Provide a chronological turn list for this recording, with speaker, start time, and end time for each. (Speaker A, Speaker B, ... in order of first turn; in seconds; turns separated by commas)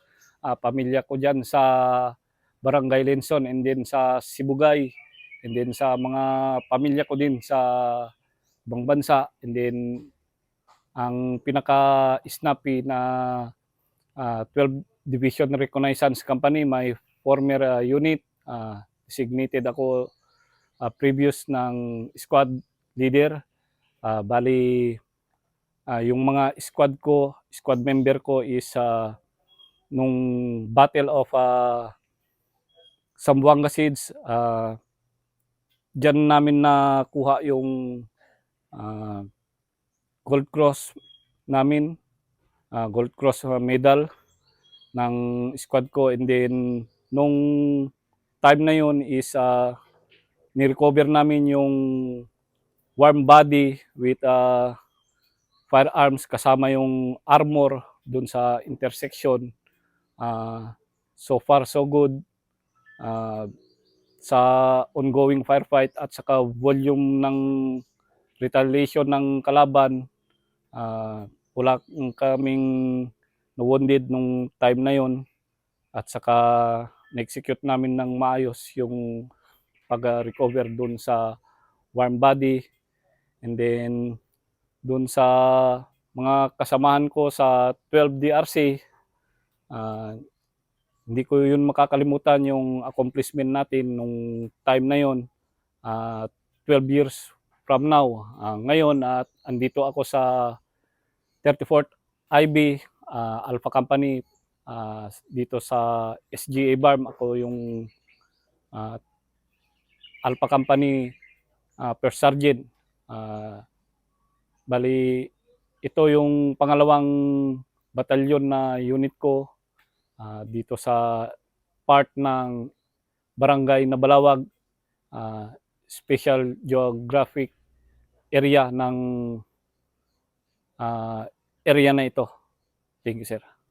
Speaker A: 0.5-4.9, Speaker A: 5.4-8.1, Speaker A: 8.7-10.1, Speaker A: 11.0-13.5, Speaker A: 14.2-20.1, Speaker A: 20.8-23.4, Speaker A: 24.0-25.0, Speaker A: 25.9-29.1, Speaker A: 29.9-31.9, Speaker A: 33.2-34.8, Speaker A: 36.0-38.0, Speaker A: 38.7-39.3, Speaker A: 40.3-40.9, Speaker A: 41.5-42.0, Speaker A: 42.7-44.1, Speaker A: 45.0-47.9, Speaker A: 48.4-49.8, Speaker A: 50.6-52.3, Speaker A: 53.0-54.8, Speaker A: 55.7-59.5, Speaker A: 60.2-62.2, Speaker A: 63.0-63.5, Speaker A: 64.2-67.8, Speaker A: 68.4-70.0, Speaker A: 70.7-75.2, Speaker A: 76.0-79.3, Speaker A: 79.9-81.4, Speaker A: 82.0-82.6, Speaker A: 83.4-84.2, Speaker A: 84.8-88.8, Speaker A: 89.7-90.2, Speaker A: 91.1-95.2, Speaker A: 95.8-100.6, Speaker A: 101.4-107.9, Speaker A: 108.7-109.0, Speaker A: 110.2-111.1, Speaker A: 111.8-113.6, Speaker A: 114.7-115.3, Speaker A: 115.8-119.5, Speaker A: 120.2-121.3, Speaker A: 121.9-122.7, Speaker A: 123.4-124.4, Speaker A: 125.1-127.5, Speaker A: 128.3-129.4, Speaker A: 130.8-132.3, Speaker A: 133.0-133.5